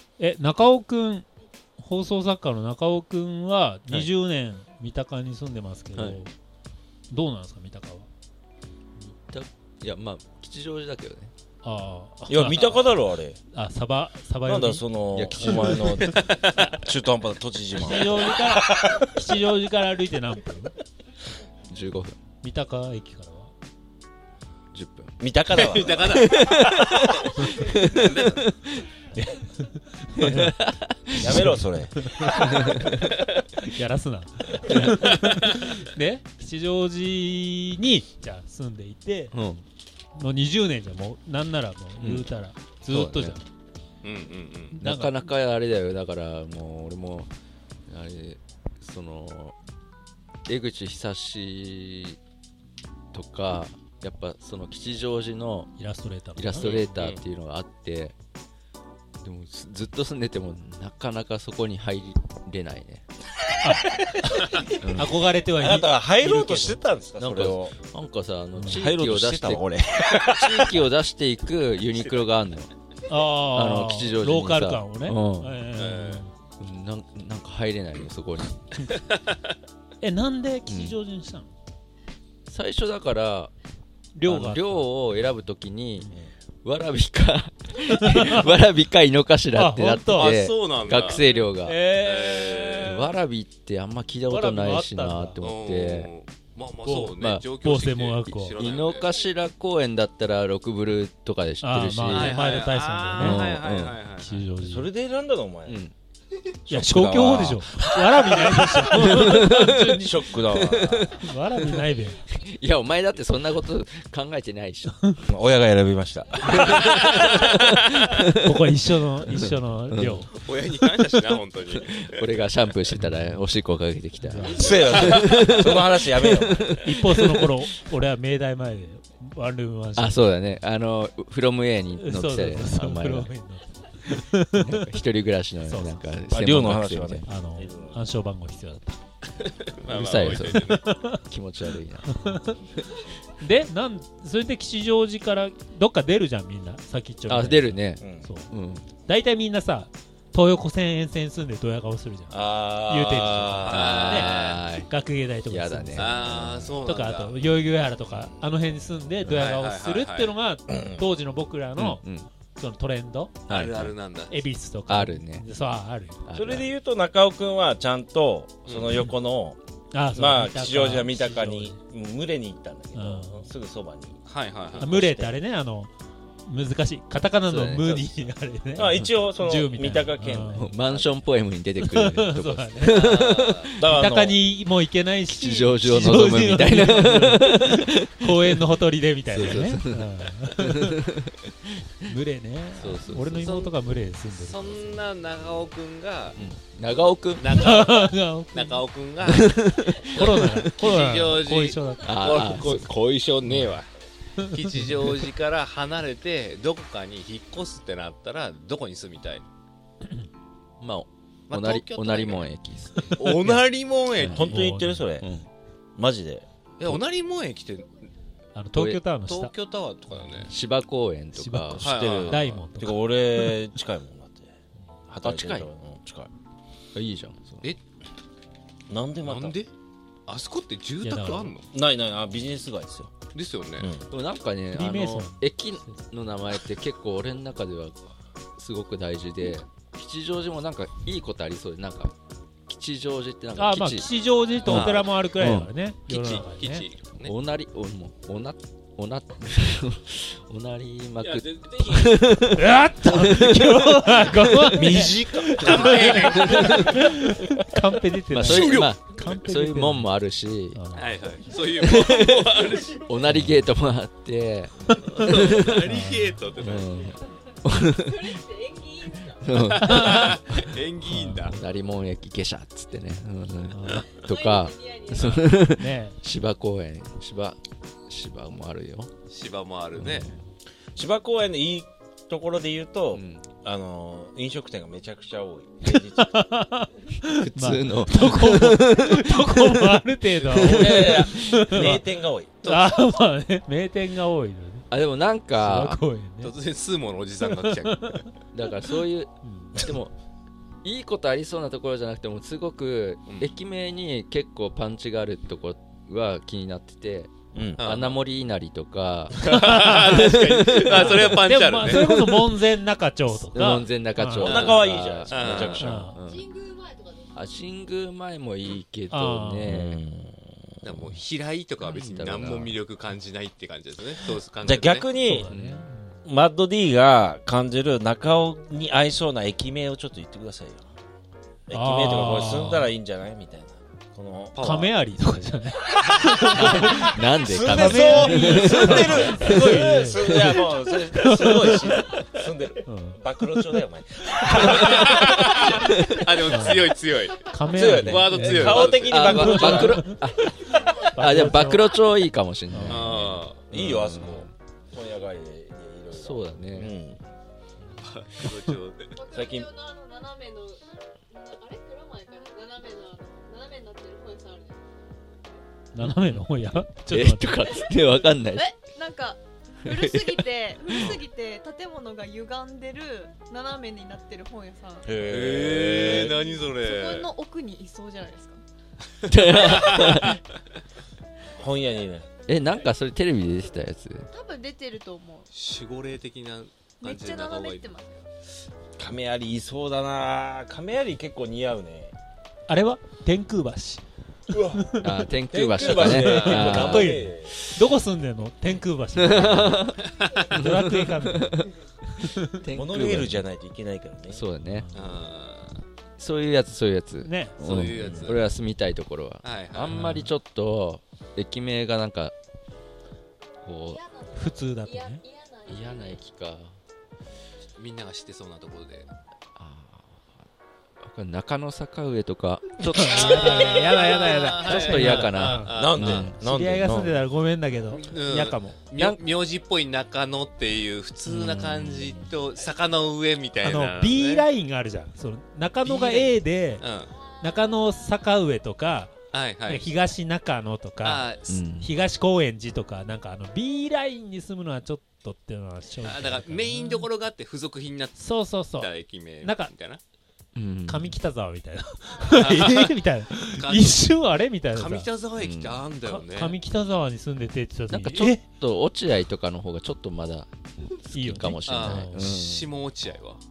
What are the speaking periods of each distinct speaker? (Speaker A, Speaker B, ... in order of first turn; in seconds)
Speaker A: 0.2-6.3, 7.1-8.1, 11.6-12.9, 13.5-14.8, 17.8-20.8, 22.4-23.5, 29.1-33.0, 33.6-39.3, 40.1-43.5, 44.7-45.3, 55.8-56.7, 63.6-66.8, 73.1-76.3, 80.0-81.5, 84.2-84.9, 89.5-90.3, 91.0-93.1, 94.3-95.4, 96.8-98.7, 101.6-103.5, 104.2-104.9, 106.7-109.9, 111.2-112.2, 118.3-120.3, 124.3-125.2, 126.8-130.3, 132.0-134.9, 135.7-136.1, 137.2-139.0, 140.2-141.2, 142.1-142.6, 143.3-162.0, 162.5-163.4, 164.3-166.2, 169.9-171.8, 172.9-173.5, 174.8-175.9, 176.4-180.7, 181.8-183.1, 183.8-191.1, 192.1-194.9, 197.5-202.8, 203.5-203.7, 204.4-205.1, 214.3-215.1, 218.5-219.5, 221.3-223.2, 231.0-231.6, 234.7-236.0, 243.6-246.9, 252.5-260.1, 260.7-261.1, 263.3-263.6, 265.8-266.5, 269.8-270.4, 271.0-271.6, 273.7-274.3, 275.2-276.2, 286.0-292.0, 292.6-294.9, 295.5-296.6, 297.7-298.3, 299.4-299.8, 309.5-310.3, 310.9-314.6, 315.8-316.2, 319.1-319.7, 325.2-326.2, 331.7-332.9, 334.6-337.1, 337.7-342.2, 342.8-343.2, 344.4-344.7, 346.5-346.9, 347.5-352.1, 352.7-353.2, 365.9-367.9, 392.7-394.0, 394.7-395.2, 396.0-402.6, 404.6-405.1, 407.2-407.9, 409.9-410.3, 414.3-415.2, 422.9-428.8, 433.6-436.9, 437.4-439.1, 439.7-447.1, 448.2-449.7, 450.9-455.1, 456.1-458.4, 461.1-462.3
Speaker B: 5.9-6.2, 9.0-11.3, 15.1-16.1, 21.7-22.2, 24.7-25.1, 26.1-28.8, 30.2-31.4, 32.4-33.1, 34.7-34.9, 39.3-39.6, 42.0-42.3, 42.9-43.4, 44.8-47.3, 47.9-49.6, 50.5-52.2, 53.1-55.7, 56.4-58.2, 59.2-63.0, 64.7-65.2, 67.2-69.7, 70.3-72.7, 73.5-75.6, 76.6-78.6, 80.7-81.0, 82.5-83.5, 84.3-91.8, 92.8-96.1, 97.2-97.5, 98.6-102.5, 103.2-104.0, 105.7-105.9, 108.9-115.2, 116.6-118.5, 119.3-120.3, 121.8-127.5, 130.0-133.3, 134.5-137.3, 139.9-142.3, 147.3-148.9, 153.7-154.9, 155.5-156.7, 161.8-162.3, 163.5-163.9, 164.9-165.4, 166.3-166.7, 177.4-178.0, 180.5-183.8, 185.3-188.6, 189.3-191.7, 192.8-193.5, 196.4-197.6, 199.2-200.7, 202.1-203.0, 210.8-213.6, 214.1-214.4, 215.2-215.5, 218.8-219.0, 220.4-221.9, 225.2-225.7, 226.9-227.7, 234.1-238.0, 238.6-242.2, 242.7-244.1, 244.7-245.7, 247.2-255.0, 255.7-257.3, 258.3-260.8, 261.8-265.9, 266.6-270.6, 271.5-279.1, 280.0-280.4, 283.1-283.5, 287.3-290.0, 290.5-291.8, 294.9-296.0, 298.5-300.1, 300.8-312.6, 313.3-316.5, 317.3-320.0, 321.8-322.8, 325.5-325.9, 336.5-340.6, 345.7-346.2, 348.7-354.5, 356.1-356.9, 366.0-366.4, 367.1-368.8, 369.8-371.2, 379.3-380.4, 382.5-384.3, 395.0-397.3, 399.2-400.0, 400.5-401.7, 402.5-403.4, 404.3-404.9, 406.2-412.4, 413.6-414.0, 415.7-416.8, 419.6-420.4, 421.0-423.3, 424.7-426.4, 431.3-432.2, 441.5-441.9, 450.6-451.1, 455.4-455.8, 457.9-462.7
Speaker C: 12.3-13.4, 14.4-19.1, 25.2-26.3, 31.2-32.0, 65.6-67.8, 68.7-70.7, 104.6-105.8, 106.7-111.2, 115.2-117.0, 124.5-126.8, 136.3-138.1, 148.0-148.3, 152.3-153.9, 160.7-161.0, 166.3-169.6, 170.1-174.2, 174.7-175.4, 178.8-181.2, 183.8-184.4, 214.3-215.3, 216.0-216.5, 221.8-224.6, 225.1-226.3, 228.9-229.6, 231.7-233.1, 233.8-234.1, 254.7-256.1, 280.9-286.4, 290.6-293.0, 307.5-307.9, 314.4-316.1, 319.6-320.7, 324.6-325.5, 326.2-330.9, 331.7-334.6, 336.2-346.1, 347.7-350.1, 353.7-357.2, 359.3-359.8, 375.0-376.5, 381.6-382.3, 389.0-392.1, 394.5-397.6, 402.7-404.4, 407.9-408.3, 425.8-427.2
Speaker D: 16.0-16.8, 25.5-26.8, 27.7-28.5, 44.0-44.8, 56.6-57.2, 75.8-76.2, 78.9-79.5, 90.1-91.2, 92.0-92.9, 95.4-99.3, 102.1-104.5, 116.7-118.1, 120.3-122.5, 139.4-140.8, 153.6-154.6, 155.9-157.4, 159.2-160.4, 163.5-164.4, 168.7-169.0, 174.3-175.0, 182.8-183.7, 193.4-193.7, 194.3-196.4, 197.4-209.5, 211.5-212.5, 213.1-214.5, 216.8-218.1, 219.3-220.5, 221.8-222.6, 229.2-229.7, 230.3-231.7, 233.3-233.9, 244.7-245.3, 246.1-247.3, 251.2-252.2, 255.6-257.2, 258.4-259.4, 260.9-262.9, 264.9-267.1, 269.5-271.6, 279.3-280.3, 296.4-298.2, 303.3-303.5, 307.8-308.2, 309.4-312.0, 314.4-315.9, 320.8-325.1, 334.6-334.9, 344.7-347.5, 348.0-349.9, 352.9-353.7, 358.0-359.3, 370.9-371.2, 375.3-377.3, 379.3-380.4, 385.5-388.0, 395.8-397.1, 400.1-400.5, 404.9-405.8, 407.6-408.5, 409.4-410.0, 417.8-419.1, 423.1-426.3, 427.9-434.5, 435.8-437.2, 439.3-439.9, 441.0-441.6, 446.0-450.0, 452.4-452.9, 453.6-454.1, 454.7-456.6, 461.7-463.4
Speaker E: 268.2-269.2, 274.6-275.2, 316.3-317.3, 359.2-364.8, 368.5-375.1, 376.3-378.6, 379.8-380.0, 384.3-385.5, 387.0-388.2, 413.9-416.2, 423.3-423.8